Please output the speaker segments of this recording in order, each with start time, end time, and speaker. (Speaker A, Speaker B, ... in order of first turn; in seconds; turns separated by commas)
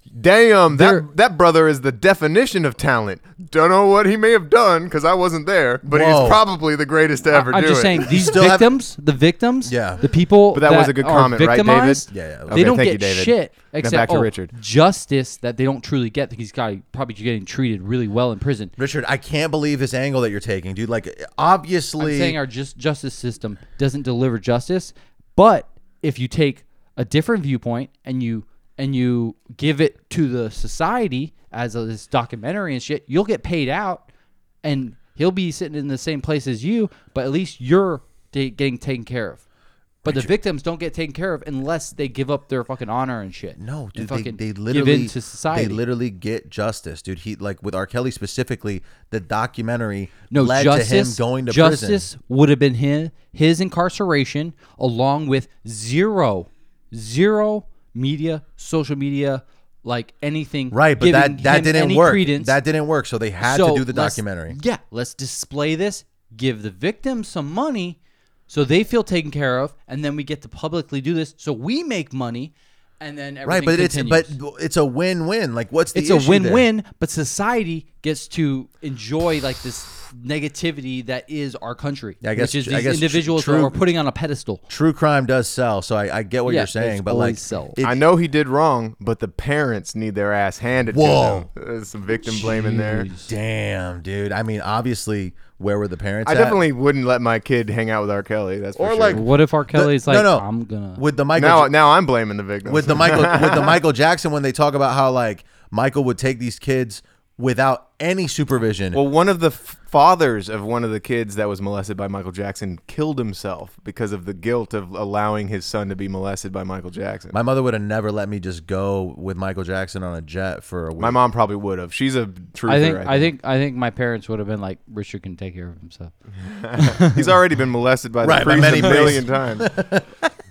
Speaker A: 0.1-8.4, Speaker B: 0.7-1.1, Speaker C: 5.9-6.4, Speaker B: 7.3-18.7, Speaker C: 8.1-8.7, Speaker C: 9.7-10.0, Speaker A: 10.5-14.5, Speaker C: 12.1-12.6, Speaker C: 18.8-22.4, Speaker B: 22.0-34.0, Speaker B: 34.6-39.4, Speaker B: 40.0-45.8, Speaker C: 40.0-40.3, Speaker C: 43.6-52.1, Speaker B: 50.3-62.5, Speaker C: 60.7-64.6, Speaker B: 63.4-74.4, Speaker C: 73.5-76.7, Speaker B: 75.9-84.6, Speaker C: 82.2-83.8, Speaker C: 84.7-88.0, Speaker B: 86.5-87.8, Speaker A: 87.8-93.1, Speaker C: 90.9-91.5, Speaker B: 92.2-93.3, Speaker C: 93.2-96.6, Speaker A: 96.2-99.2, Speaker C: 98.8-101.7, Speaker B: 99.1-101.0, Speaker A: 101.4-103.8, Speaker C: 102.7-109.0, Speaker A: 108.9-117.4, Speaker C: 117.3-121.2, Speaker A: 121.0-123.3, Speaker B: 122.7-126.1, Speaker A: 126.4-129.7, Speaker B: 126.8-127.1, Speaker C: 128.2-130.3